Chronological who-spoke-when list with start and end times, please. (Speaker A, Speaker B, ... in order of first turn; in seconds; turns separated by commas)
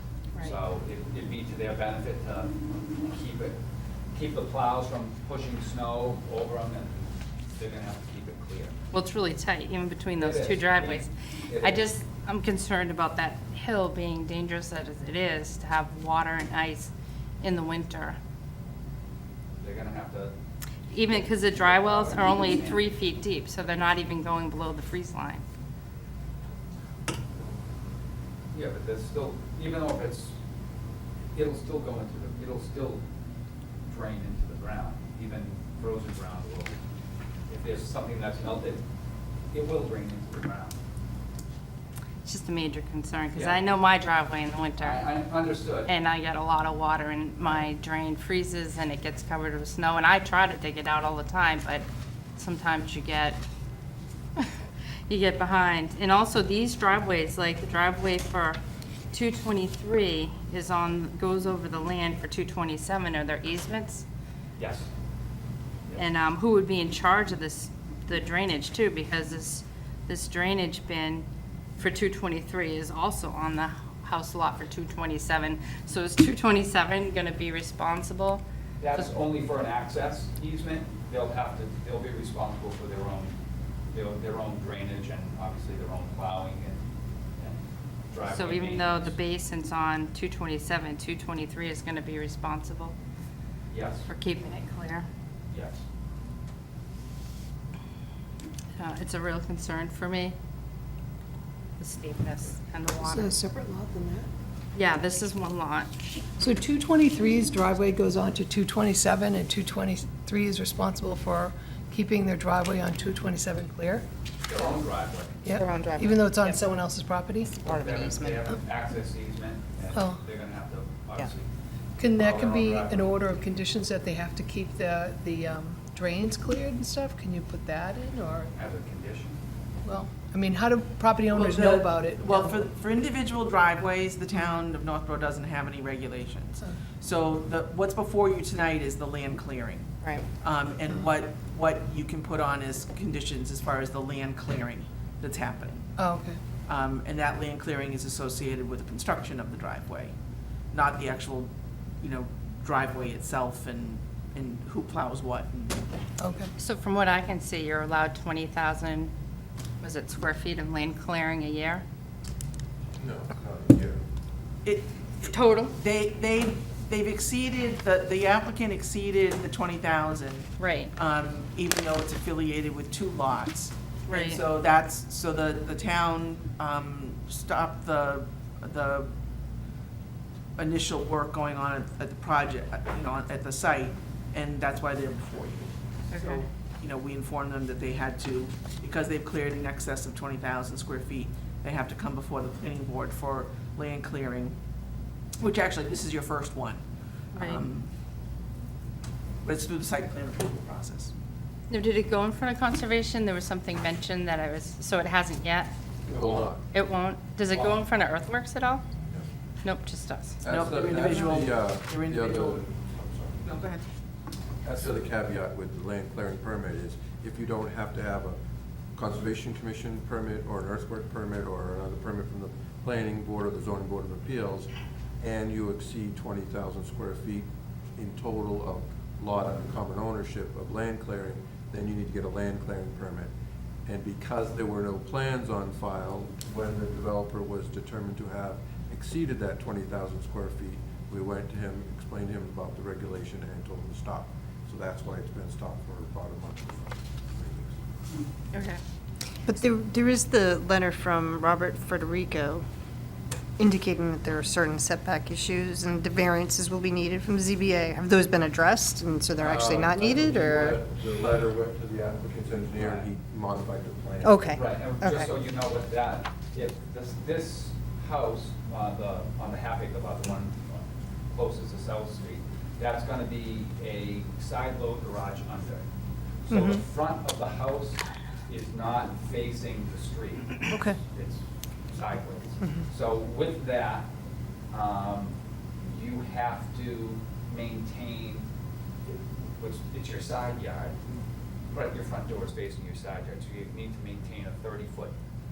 Speaker A: 0.4-3.6, Speaker A: 4.1-8.8, Speaker B: 8.9-18.2, Speaker A: 10.2-11.9, Speaker A: 19.6-20.3, Speaker B: 20.9-25.4, Speaker A: 21.0-22.9, Speaker A: 28.5-30.4, Speaker A: 31.3-33.0, Speaker A: 33.9-36.8, Speaker A: 37.5-38.8, Speaker A: 39.5-40.8, Speaker B: 42.2-45.1, Speaker A: 43.3-43.6, Speaker A: 44.8-45.9, Speaker B: 45.9-53.4, Speaker B: 55.1-58.6, Speaker B: 59.1-64.0, Speaker A: 64.6-64.9, Speaker B: 66.0-71.3, Speaker B: 71.8-78.4, Speaker A: 78.8-83.4, Speaker A: 83.9-86.8, Speaker A: 88.1-89.1, Speaker B: 88.2-93.0, Speaker A: 93.7-94.1, Speaker B: 94.1-95.1, Speaker A: 95.5-95.8, Speaker B: 98.8-100.3, Speaker B: 101.8-103.3, Speaker C: 103.0-104.3, Speaker B: 104.8-105.9, Speaker C: 106.4-114.0, Speaker A: 114.5-115.4, Speaker C: 115.5-117.7, Speaker B: 115.6-116.6, Speaker A: 117.6-121.5, Speaker C: 122.0-128.5, Speaker A: 122.1-123.1, Speaker A: 128.6-129.4, Speaker C: 129.8-132.6, Speaker D: 131.3-145.9, Speaker C: 146.0-146.4, Speaker D: 146.7-150.1, Speaker D: 150.7-151.5, Speaker D: 152.0-155.8, Speaker C: 156.2-156.5, Speaker B: 156.6-159.1, Speaker B: 159.8-161.8, Speaker E: 163.0-164.0, Speaker D: 164.7-179.1, Speaker B: 165.3-165.7, Speaker B: 170.6-170.9, Speaker B: 174.1-174.4, Speaker D: 180.6-194.5, Speaker B: 186.1-186.4, Speaker D: 195.4-196.8, Speaker B: 197.3-197.7, Speaker D: 197.3-197.9, Speaker D: 199.4-201.1, Speaker B: 201.7-205.7, Speaker E: 206.1-206.6, Speaker A: 206.1-206.5, Speaker B: 206.7-208.8, Speaker A: 207.5-207.8, Speaker B: 209.6-210.4, Speaker E: 210.4-213.5, Speaker D: 210.4-212.6, Speaker D: 213.4-213.8, Speaker E: 214.6-218.4, Speaker E: 218.9-233.3, Speaker E: 233.9-247.8, Speaker B: 248.5-248.8, Speaker F: 249.4-252.7, Speaker F: 253.6-260.8, Speaker E: 259.4-264.5, Speaker A: 262.8-263.1, Speaker F: 264.2-265.3, Speaker A: 264.5-275.9, Speaker A: 276.5-284.1, Speaker F: 276.5-276.8, Speaker A: 284.7-288.5, Speaker A: 289.1-291.0, Speaker A: 291.7-295.1